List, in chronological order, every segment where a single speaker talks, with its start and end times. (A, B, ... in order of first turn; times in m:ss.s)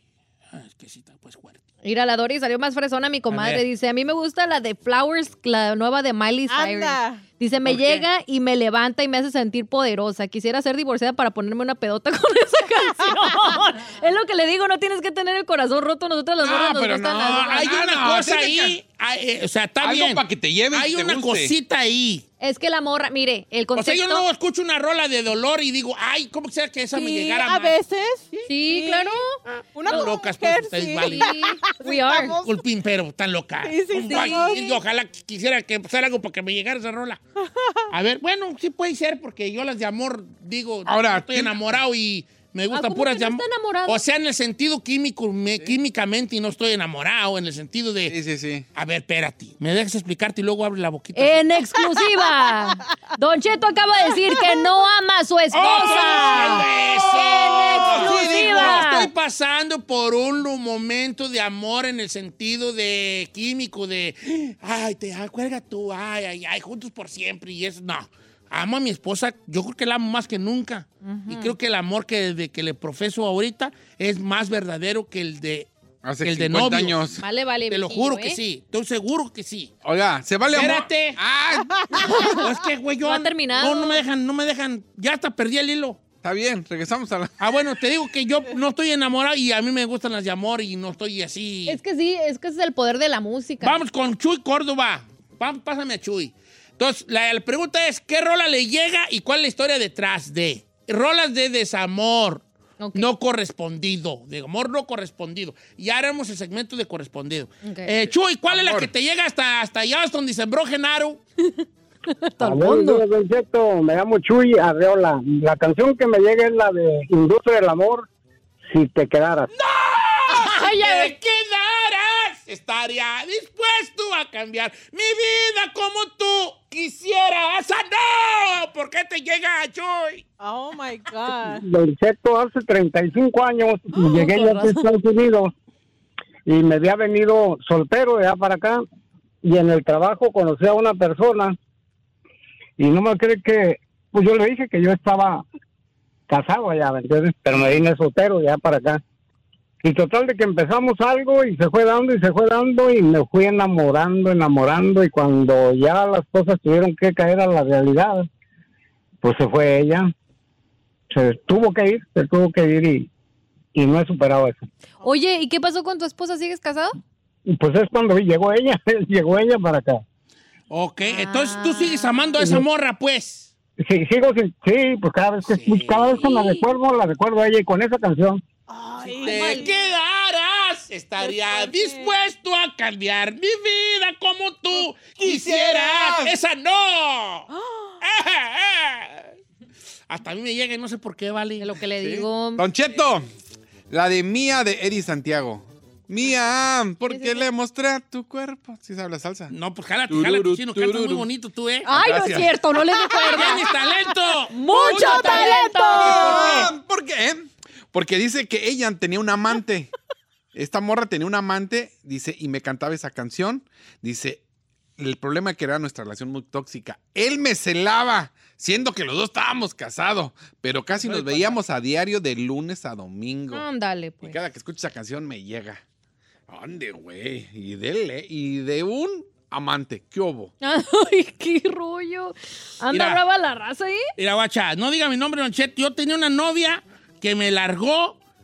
0:00.5-0:01.6 A
0:01.8-0:17.7 B
0:03.3-0:03.6 A
0:06.5-0:07.2 C
0:07.6-0:08.0 A
0:16.4-0:18.8 D
0:17.2-0:22.2 A
0:19.8-0:21.5 D
0:22.4-0:24.2 B
0:23.7-0:27.8 A
0:26.9-0:29.2 C
0:28.5-0:30.1 B
0:29.5-0:31.4 A
0:29.7-0:32.6 C
0:31.0-0:32.4 B
0:32.4-0:37.2 A
0:33.6-0:34.8 C
0:34.1-0:34.7 B
0:37.4-0:37.8 C
0:37.9-0:48.2 A
0:40.8-0:41.6 D
0:42.7-0:44.0 B
0:48.1-0:48.6 D
0:48.7-0:51.5 A
0:51.1-0:59.1 B
0:55.5-1:15.7 A
0:55.9-0:58.8 D
1:11.0-1:11.5 B
1:16.0-1:17.2 D
1:16.2-1:17.0 A
1:17.2-1:18.4 B
1:17.7-1:19.7 A
1:19.8-1:22.2 D
1:20.5-1:21.2 A
1:22.1-1:22.3 B
1:22.2-1:26.0 A
1:23.0-1:24.0 B
1:26.2-1:27.5 D
1:27.4-1:31.8 A
1:31.7-1:33.8 B
1:33.6-1:42.4 A
1:42.8-1:43.1 B
1:42.9-1:51.2 A
1:47.6-1:47.9 B
1:48.5-1:48.9 D
1:51.4-1:53.0 B
1:52.4-1:58.1 E
1:58.7-1:59.5 E
1:59.5-2:10.2 A
2:00.3-2:01.1 B
2:10.4-2:11.6 C
2:11.5-2:15.5 E
2:14.0-2:14.8 B
2:16.4-2:18.8 E
2:19.4-2:21.6 E
2:22.8-2:25.4 E
2:26.3-2:29.0 E
2:29.8-2:38.3 E
2:39.2-2:40.1 E
2:41.1-2:43.1 E
2:43.7-2:44.6 E
2:45.0-2:46.9 B
2:47.4-2:50.0 E
2:50.7-2:53.5 A
2:51.1-2:52.3 B
2:52.4-2:52.6 E
2:53.8-2:58.4 E
2:55.4-2:56.4 A
2:58.7-2:59.8 C
2:59.1-3:07.5 A
2:59.1-2:59.7 B
3:01.2-3:02.1 C
3:05.2-3:06.4 D
3:07.5-3:08.0 C
3:08.0-3:09.3 A
3:10.1-3:11.7 A
3:11.6-3:12.6 B
3:12.0-3:13.3 D
3:13.9-3:19.5 D
3:17.1-3:17.4 B
3:19.5-3:21.9 A
3:20.1-3:21.3 D
3:21.8-3:23.6 B
3:21.9-3:22.7 D
3:23.3-3:26.7 A
3:24.5-3:26.7 B
3:24.8-3:26.5 C
3:24.8-3:25.3 D
3:25.9-3:29.9 D
3:30.5-3:34.4 D
3:35.0-3:43.6 D
3:41.0-3:41.6 A
3:43.5-3:44.4 B
3:44.2-3:45.8 D
3:46.5-3:50.5 D
3:50.6-3:54.1 B
3:52.9-3:53.2 A
3:54.2-3:58.2 A